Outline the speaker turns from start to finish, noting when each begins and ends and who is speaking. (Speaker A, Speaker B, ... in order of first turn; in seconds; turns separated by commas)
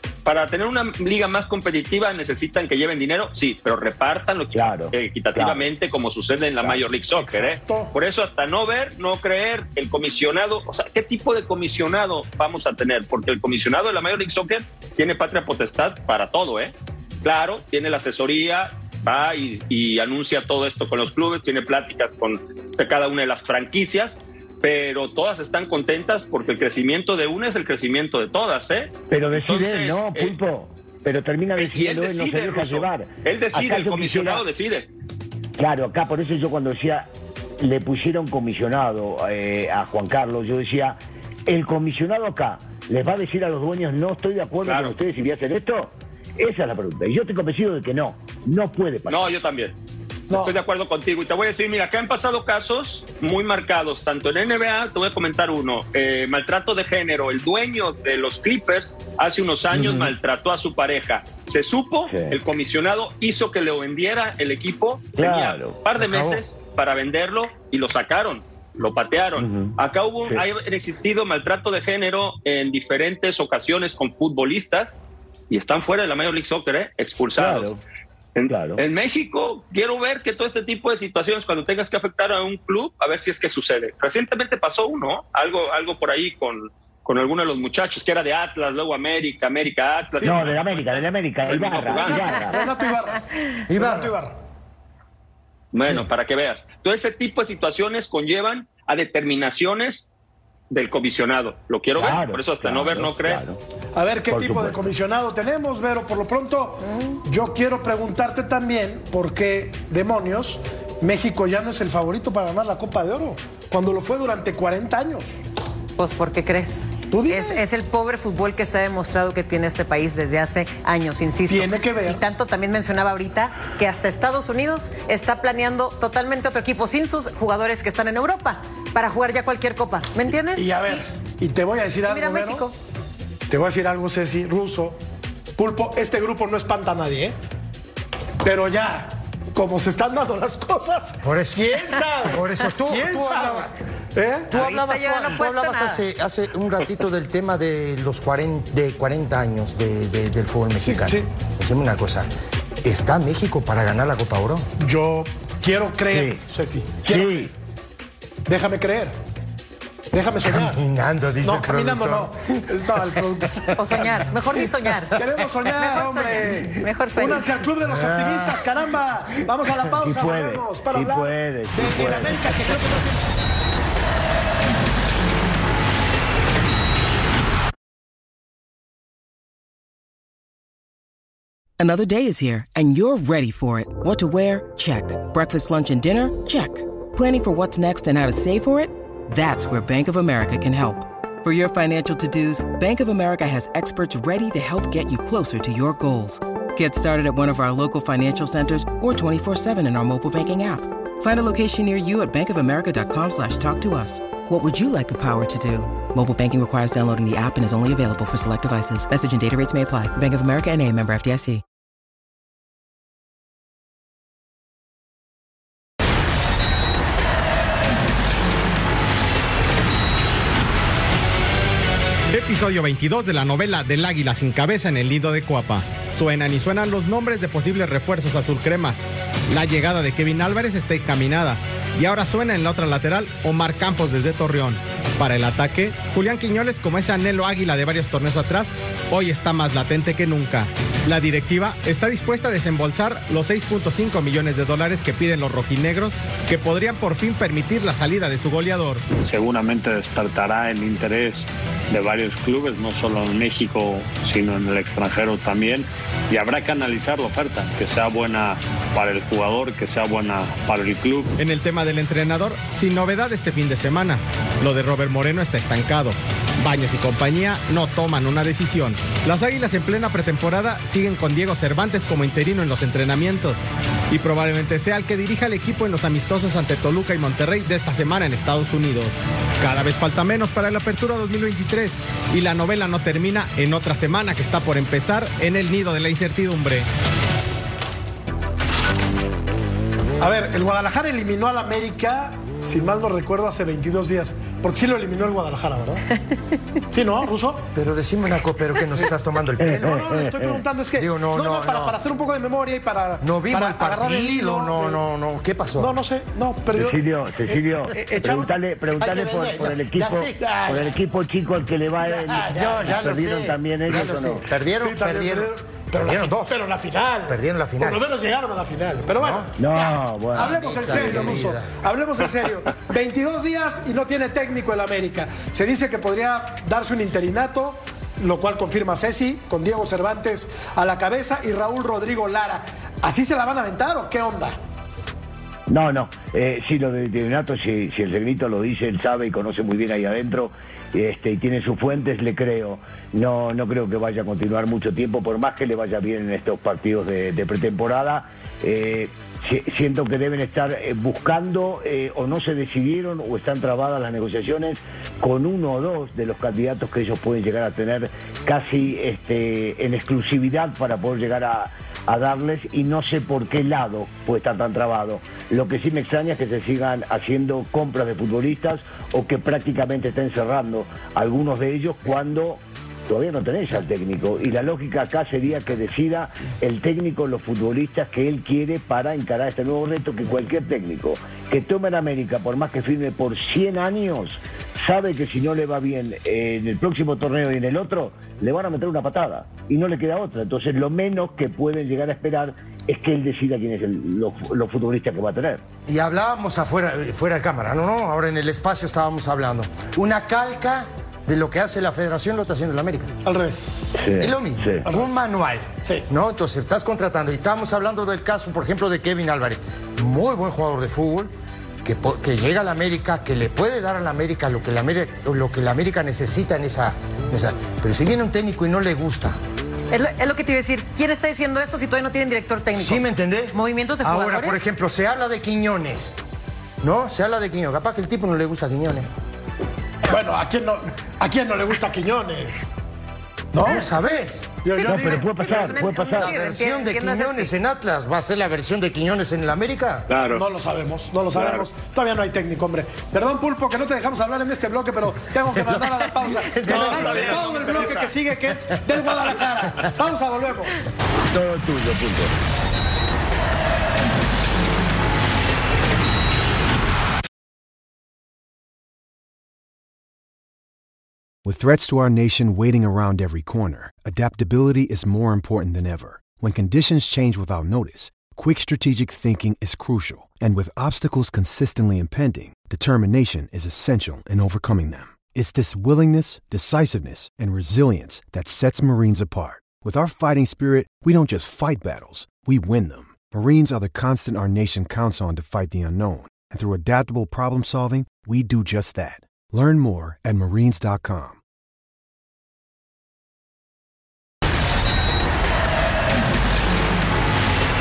Speaker A: 0.2-16.7, Speaker B: 4.5-5.7, Speaker C: 7.2-7.9, Speaker A: 17.2-30.4, Speaker B: 29.1-34.5, Speaker A: 31.6-34.9, Speaker B: 35.6-37.1, Speaker B: 37.6-49.3, Speaker A: 44.6-45.0, Speaker A: 49.1-49.8, Speaker C: 50.3-50.6, Speaker A: 50.3-75.0, Speaker B: 59.7-60.1, Speaker B: 62.1-62.4, Speaker B: 65.2-65.8, Speaker D: 66.0-66.4, Speaker B: 69.4-69.8, Speaker A: 75.5-77.7, Speaker B: 77.3-77.8, Speaker A: 78.3-92.6, Speaker B: 78.5-78.8, Speaker B: 90.2-92.6, Speaker C: 91.9-93.2, Speaker D: 93.7-94.1, Speaker C: 93.7-94.3, Speaker A: 95.7-100.1, Speaker A: 100.7-103.4, Speaker B: 102.0-103.6, Speaker C: 104.0-115.3, Speaker B: 104.3-104.9, Speaker E: 116.0-131.0, Speaker C: 117.1-117.6, Speaker C: 121.5-122.2, Speaker C: 130.5-132.7, Speaker E: 132.1-132.7, Speaker C: 133.5-135.0, Speaker C: 135.6-137.4, Speaker C: 138.4-144.5, Speaker D: 141.2-143.8, Speaker D: 144.5-152.3, Speaker E: 144.5-146.0, Speaker C: 150.9-151.2, Speaker D: 152.8-154.7, Speaker C: 154.8-157.5, Speaker B: 156.1-156.4, Speaker B: 157.0-157.5, Speaker C: 158.5-159.2, Speaker C: 160.1-160.8, Speaker D: 160.4-163.7, Speaker C: 161.4-164.0, Speaker E: 163.8-167.5, Speaker C: 165.2-173.2, Speaker D: 167.8-168.7, Speaker B: 170.0-172.8, Speaker F: 181.8-211.6, Speaker G: 222.3-249.0, Speaker H: 249.2-261.3, Speaker G: 261.4-286.9, Speaker C: 290.2-296.1, Speaker C: 296.9-297.6, Speaker D: 297.8-300.1, Speaker B: 299.6-300.6, Speaker C: 299.7-305.0, Speaker D: 300.9-302.0, Speaker D: 303.2-305.9, Speaker C: 305.8-308.6, Speaker B: 306.7-314.4, Speaker D: 309.0-310.4, Speaker C: 310.0-310.9, Speaker C: 312.0-312.7, Speaker D: 312.4-316.6, Speaker C: 314.8-334.6, Speaker D: 317.3-318.0, Speaker D: 319.2-319.5, Speaker B: 319.6-321.4, Speaker D: 320.3-321.8, Speaker B: 335.7-395.6, Speaker D: 395.9-403.1, Speaker C: 403.2-404.0, Speaker B: 404.0-404.9, Speaker D: 404.2-411.3, Speaker C: 404.9-405.1, Speaker D: 411.8-419.4, Speaker E: 419.9-424.6, Speaker D: 422.8-426.1, Speaker D: 426.8-429.1, Speaker C: 430.1-432.6, Speaker C: 433.5-433.9, Speaker D: 433.6-434.6, Speaker C: 434.6-435.7, Speaker E: 434.7-437.5, Speaker B: 434.9-436.4, Speaker D: 436.0-440.1, Speaker A: 440.1-440.4, Speaker C: 440.3-450.8, Speaker A: 441.3-441.6, Speaker D: 445.5-447.8, Speaker A: 446.7-448.1, Speaker B: 451.2-452.3, Speaker I: 461.4-491.4